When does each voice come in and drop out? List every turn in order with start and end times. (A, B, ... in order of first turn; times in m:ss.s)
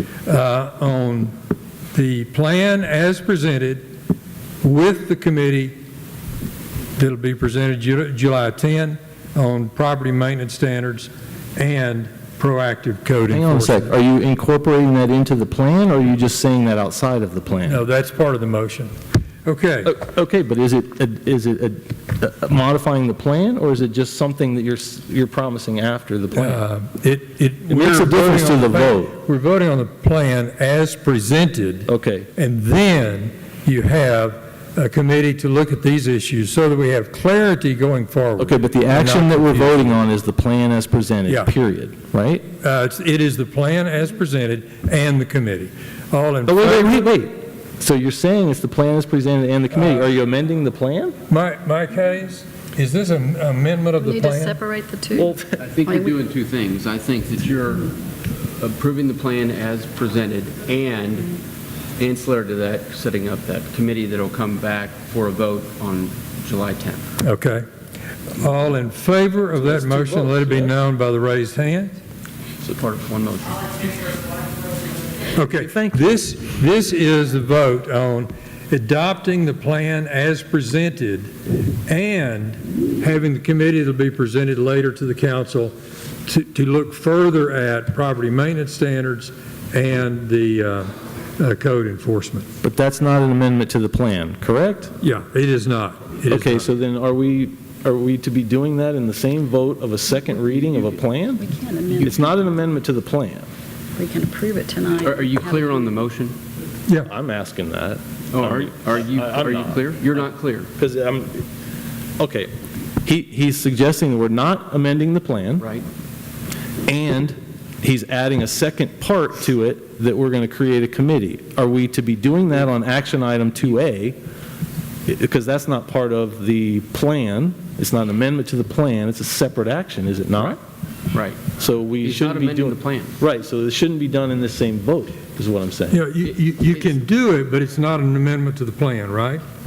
0:00.2-0:01.3 A
0:01.9-0:03.8 A
0:04.6-0:05.8 A
0:07.0-0:13.9 A
0:13.3-0:17.8 B
0:17.7-0:18.9 A
0:19.4-0:19.9 A
0:19.8-0:26.6 B
0:26.3-0:40.0 A
0:27.7-0:29.1 B
0:31.9-0:32.3 B
0:38.4-0:42.4 B
0:42.6-0:47.1 A
0:46.4-0:51.2 B
0:49.8-0:50.0 A
0:51.3-0:54.6 A
0:54.0-0:56.2 C
0:55.1-0:55.6 B
0:55.6-0:58.0 D
0:58.6-1:01.4 D
1:02.0-1:07.0 D
1:07.2-1:07.6 A
1:08.3-1:12.0 A
1:09.6-1:10.7 B
1:12.6-1:14.0 D
1:15.3-1:21.3 A
1:15.5-1:16.0 B
1:21.9-1:25.7 A
1:26.2-1:32.4 A
1:32.6-1:34.9 B
1:35.0-1:36.6 A
1:36.3-1:41.4 B
1:40.4-1:41.0 D
1:41.4-1:42.4 C
1:41.9-1:42.3 D
1:42.0-1:43.4 B
1:44.0-1:46.0 C
1:45.0-1:46.3 D
1:47.0-1:50.0 B
1:48.3-1:50.7 D
1:50.8-1:51.4 B
1:52.2-1:52.5 B
1:53.0-1:55.7 B
1:56.9-2:04.2 B
2:05.0-2:10.6 B
2:11.1-2:13.1 D
2:11.6-2:16.0 B
2:15.9-2:19.4 A